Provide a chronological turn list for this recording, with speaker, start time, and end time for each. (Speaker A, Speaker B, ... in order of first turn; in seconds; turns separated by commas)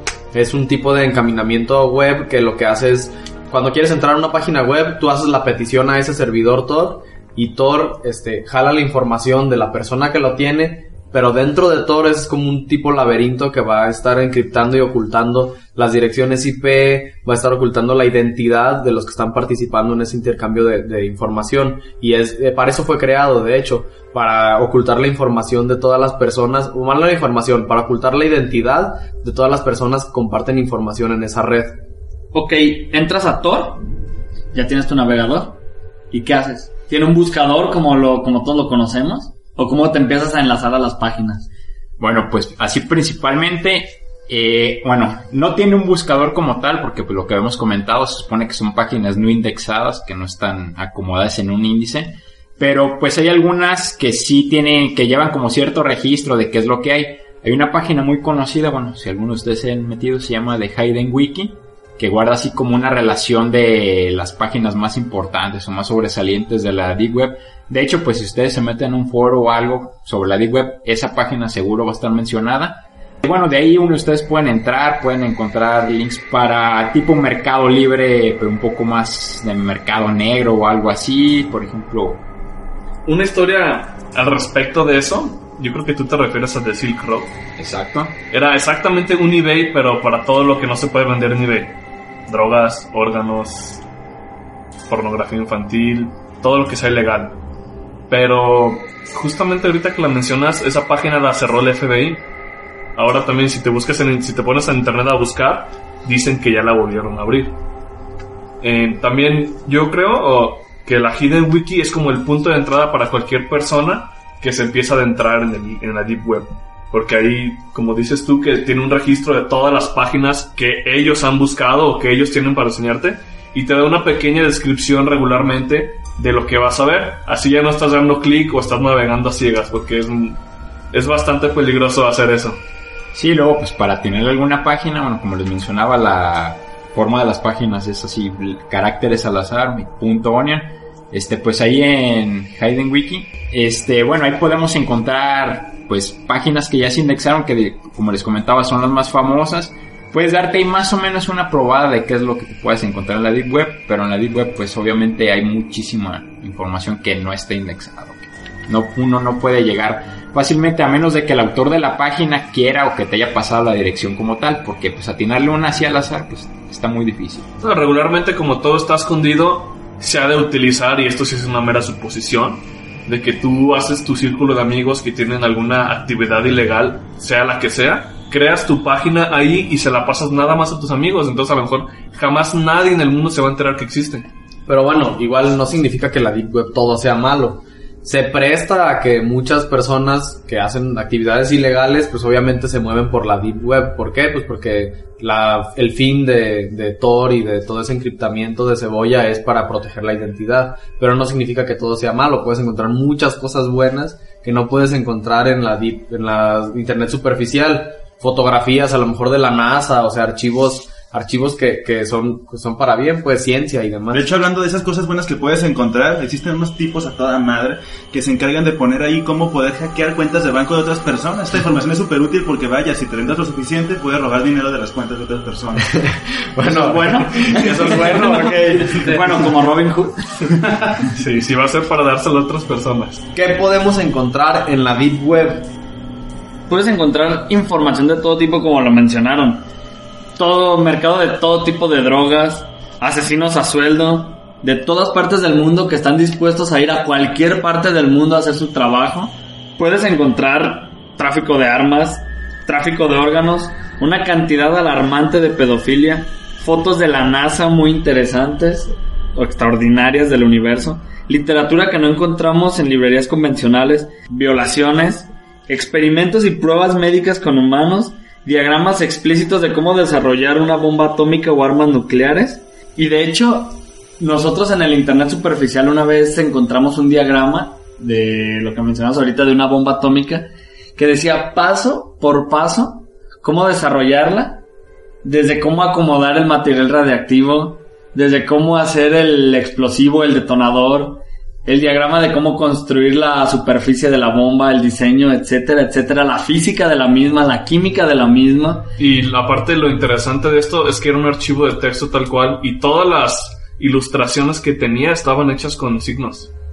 Speaker A: 0.3-31.8, Speaker B: 32.3-33.8, Speaker B: 34.5-41.5, Speaker C: 42.0-82.2, Speaker D: 83.1-87.3, Speaker C: 87.6-88.2, Speaker D: 88.3-93.8, Speaker D: 94.9-97.4, Speaker D: 98.1-102.2, Speaker D: 103.0-107.6, Speaker D: 108.6-130.4, Speaker D: 130.9-132.6, Speaker C: 133.1-167.5, Speaker D: 167.6-184.3, Speaker A: 184.7-214.3, Speaker E: 214.1-225.9, Speaker A: 225.9-229.6, Speaker B: 226.7-230.6, Speaker D: 231.1-233.2, Speaker A: 233.3-235.7, Speaker B: 236.7-239.7, Speaker B: 240.4-284.6, Speaker B: 285.2-298.9, Speaker D: 299.0-306.5